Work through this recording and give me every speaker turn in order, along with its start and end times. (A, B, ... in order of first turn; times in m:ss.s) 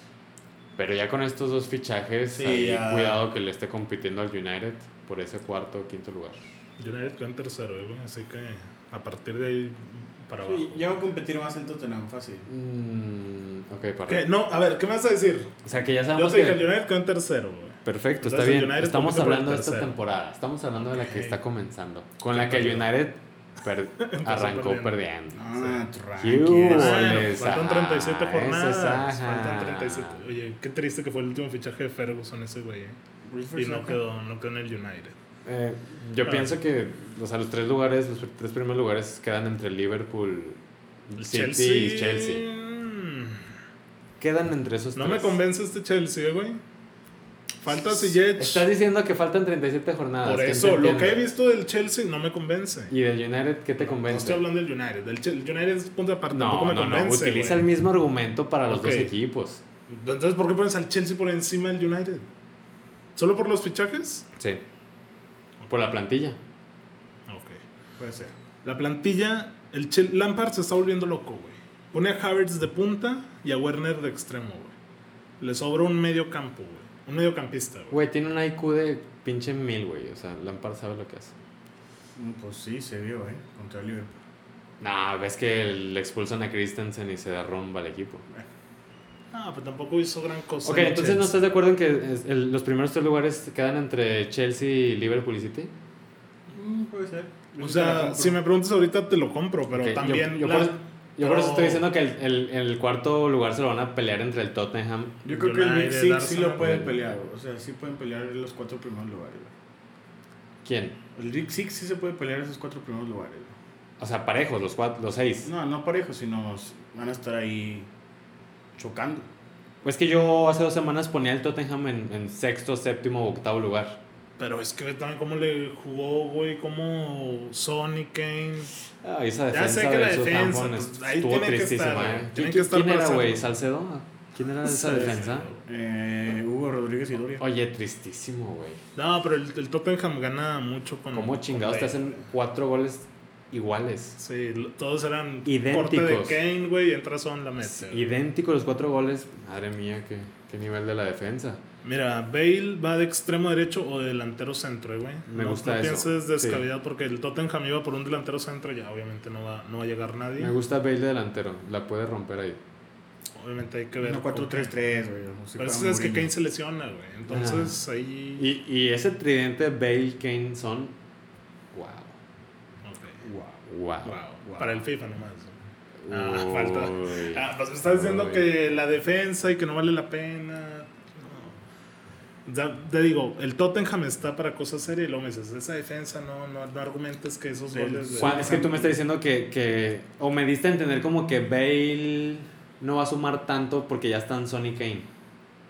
0:00.8-0:06.4 A
0:02.3-0:03.2 B
0:06.8-0:11.0 C
0:10.4-0:12.5 B
0:12.5-0:14.3 A
0:14.1-0:15.6 C
0:15.6-0:16.6 A
0:16.1-0:19.9 C
0:17.8-0:25.6 A
0:20.8-0:21.4 C
0:22.3-0:22.9 C
0:24.0-0:25.0 C
0:25.3-0:27.3 B
0:26.2-0:30.2 A
0:26.7-0:33.0 C
0:33.2-0:34.0 B
0:33.5-0:35.2 C
0:35.4-0:42.4 A
0:36.2-0:36.6 C
0:41.2-0:43.4 C
0:44.2-0:45.4 A
0:44.9-0:46.6 C
0:47.6-0:48.7 C
0:47.9-0:51.3 A
0:50.2-0:52.9 C
0:52.9-0:54.4 A
0:53.8-0:57.7 C
0:56.3-0:59.6 A
0:58.6-0:59.1 C
0:59.9-1:02.2 C
1:03.2-1:04.2 C
1:05.7-1:06.4 A
1:07.3-1:07.6 C
1:08.0-1:08.3 B
1:08.6-1:14.7 C
1:15.4-1:18.0 C
1:17.9-1:21.3 A
1:22.2-1:24.1 B
1:24.8-1:28.2 A
1:29.3-1:31.3 C
1:30.6-1:35.7 A
1:36.5-1:38.4 B
1:37.6-1:41.8 C
1:39.7-1:45.2 A
1:45.2-1:49.5 B
1:45.3-1:46.7 C
1:46.6-1:46.9 A
1:50.6-1:51.0 A
1:51.1-1:53.6 B
1:54.0-1:55.5 A
1:55.4-1:57.9 B
1:58.8-1:59.3 B
1:59.8-2:04.0 A
2:04.4-2:08.7 C
2:09.0-2:15.5 A
2:09.5-2:13.5 C
2:14.6-2:15.6 C
2:14.7-2:17.4 B
2:17.4-2:18.8 A
2:19.0-2:22.1 C
2:21.1-2:24.2 A
2:24.2-2:28.1 C
2:25.4-2:26.4 A
2:27.6-2:31.6 A
2:31.8-2:40.5 C
2:35.3-2:36.6 A
2:40.4-2:42.6 A
2:43.4-2:44.7 C
2:44.0-2:46.3 B
2:45.6-2:48.4 C
2:47.3-2:47.8 A
2:48.4-2:50.9 A
2:51.7-2:52.2 A
2:52.8-2:53.2 C
2:53.2-2:53.6 B
2:53.7-2:54.2 A
2:54.0-2:55.6 C
2:54.4-2:54.8 B
2:56.0-2:58.5 A
2:56.1-3:01.5 C
3:02.4-3:08.6 C
3:07.7-3:08.9 B
3:08.2-3:15.1 A